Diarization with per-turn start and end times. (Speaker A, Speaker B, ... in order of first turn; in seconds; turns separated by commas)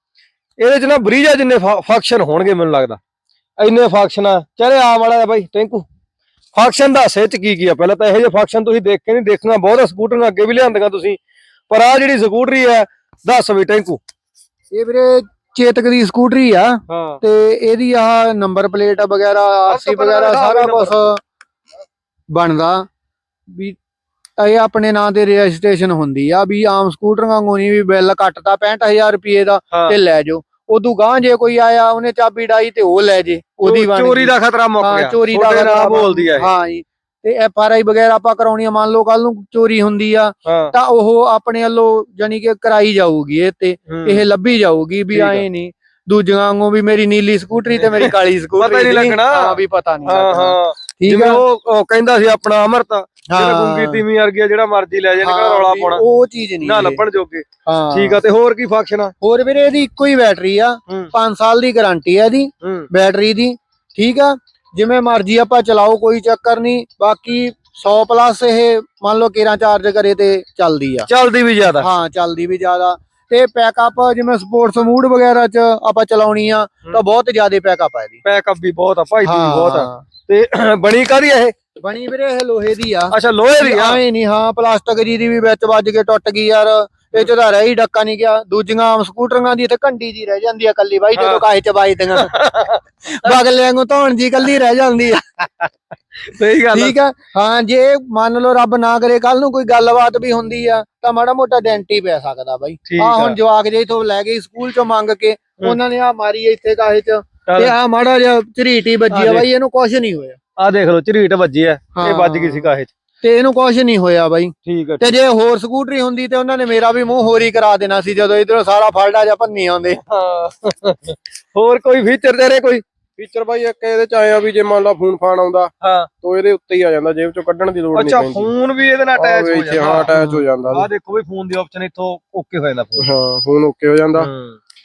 Speaker A: 0.6-3.0, Speaker A: 3.6-5.8, Speaker A: 6.5-11.2, Speaker A: 11.7-14.0, Speaker B: 14.7-21.2, Speaker A: 16.9-17.2, Speaker A: 19.7-21.1, Speaker B: 22.3-22.9, Speaker B: 23.5-23.8, Speaker B: 24.4-51.4, Speaker A: 33.6-36.5, Speaker A: 40.4-40.7, Speaker A: 43.9-44.3, Speaker A: 45.1-45.5, Speaker A: 47.8-56.0, Speaker B: 53.3-54.0, Speaker B: 55.2-57.0, Speaker A: 56.6-59.1, Speaker B: 57.6-58.2, Speaker B: 59.2-71.1, Speaker A: 62.6-62.9, Speaker A: 71.1-71.9, Speaker B: 71.7-78.2, Speaker A: 78.2-81.5, Speaker B: 79.2-80.0, Speaker B: 81.8-92.3, Speaker A: 83.1-84.0, Speaker A: 91.2-91.4, Speaker A: 92.1-93.4, Speaker B: 93.2-95.2, Speaker A: 96.3-96.9, Speaker B: 96.7-110.4, Speaker A: 102.9-103.4, Speaker A: 107.5-107.7, Speaker A: 109.1-109.5, Speaker A: 110.6-112.9, Speaker B: 111.9-120.0, Speaker A: 114.6-115.1, Speaker A: 120.1-122.8, Speaker C: 123.2-125.7, Speaker A: 125.8-126.1, Speaker C: 126.2-128.5, Speaker A: 127.9-133.1, Speaker C: 129.2-130.9, Speaker C: 133.0-134.3, Speaker A: 134.1-134.6